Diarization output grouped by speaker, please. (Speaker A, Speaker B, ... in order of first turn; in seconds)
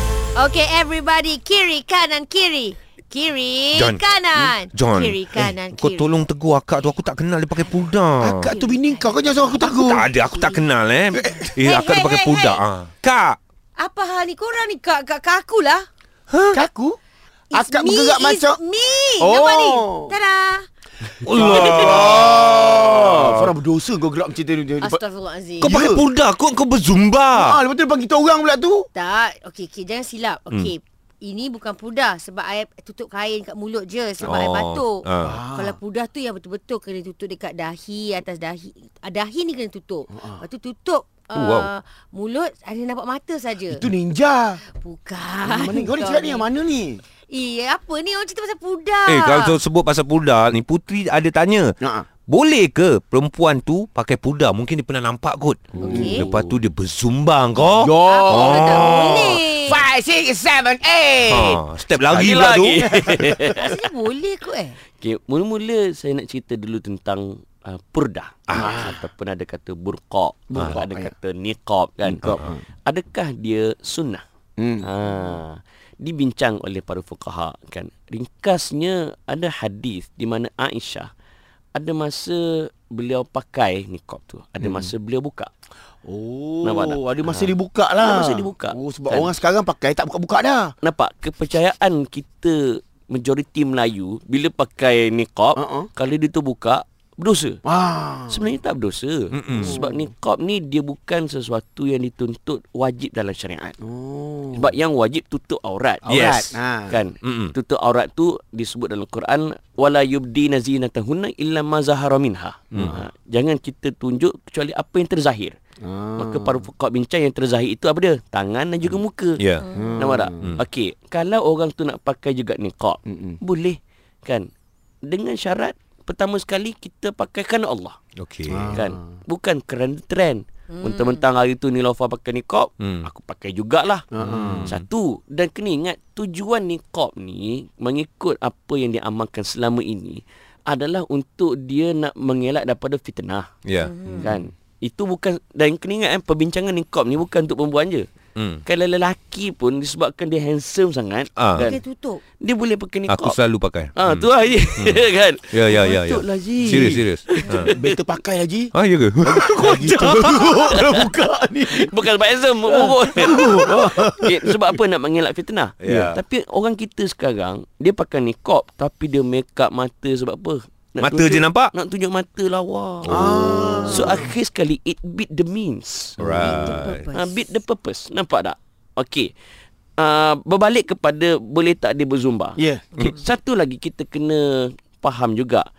Speaker A: 0.4-6.1, 8.4-10.6, 11.6-12.6, 13.8-15.8, 17.5-20.6, 24.8-25.8, 28.9-43.8, 44.7-46.4, 47.3-49.6, 58.1-59.8, 63.7-64.8, 143.8-144.3, 151.6-152.2, 176.2-177.3
Speaker B: 3.7-8.6, 9.6-13.4, 16.3-16.6, 21.2-23.5, 25.6-27.6, 34.2-35.4, 41.3-41.7, 49.1-51.8, 52.2-59.4, 61.3-62.8, 99.3-99.8, 106.0-106.6, 107.2-107.5, 119.4-119.7, 128.2-128.7, 132.8-133.1, 134.2-134.8, 143.7-143.9, 148.3-148.6, 151.4-151.7, 153.1-157.7, 158.7-160.4, 165.8-166.2, 171.0-171.7, 173.0-174.0, 176.2-177.1
Speaker C: 8.2-10.1, 11.1-11.5, 16.5-17.0, 17.5-18.6, 19.2-20.2, 21.3-25.0, 25.6-26.0, 27.3-28.9, 35.2-35.8, 40.1-40.5, 43.6-44.6, 45.4-47.0, 55.8-56.5, 57.6-61.6, 62.1-63.8, 68.5-69.0, 70.5-71.1, 72.0-72.6, 74.6-74.9, 84.6-84.9, 86.0-90.7, 95.6-95.9, 97.7-98.4, 99.5-100.1, 103.8-104.7, 106.1-107.0, 115.8-116.7, 119.7-120.6, 123.0-123.4, 128.5-129.0, 134.1-134.8, 144.1-144.4, 156.7-156.9, 157.5-158.7, 159.2-161.9, 162.7-164.7, 165.8-166.1, 173.1-174.3, 182.6-182.8
Speaker D: 62.1-63.8, 65.0-74.2, 74.8-81.1, 81.8-85.5, 86.6-89.3, 90.8-97.6, 98.3-103.8, 104.5-106.0, 106.9-115.6, 116.2-119.4, 119.9-124.5, 125.0-128.0, 128.7-134.0, 134.7-143.5, 144.2-148.1, 148.7-151.8, 152.4-153.4, 154.0-157.9, 159.7-161.1, 161.7-179.3, 180.0-185.7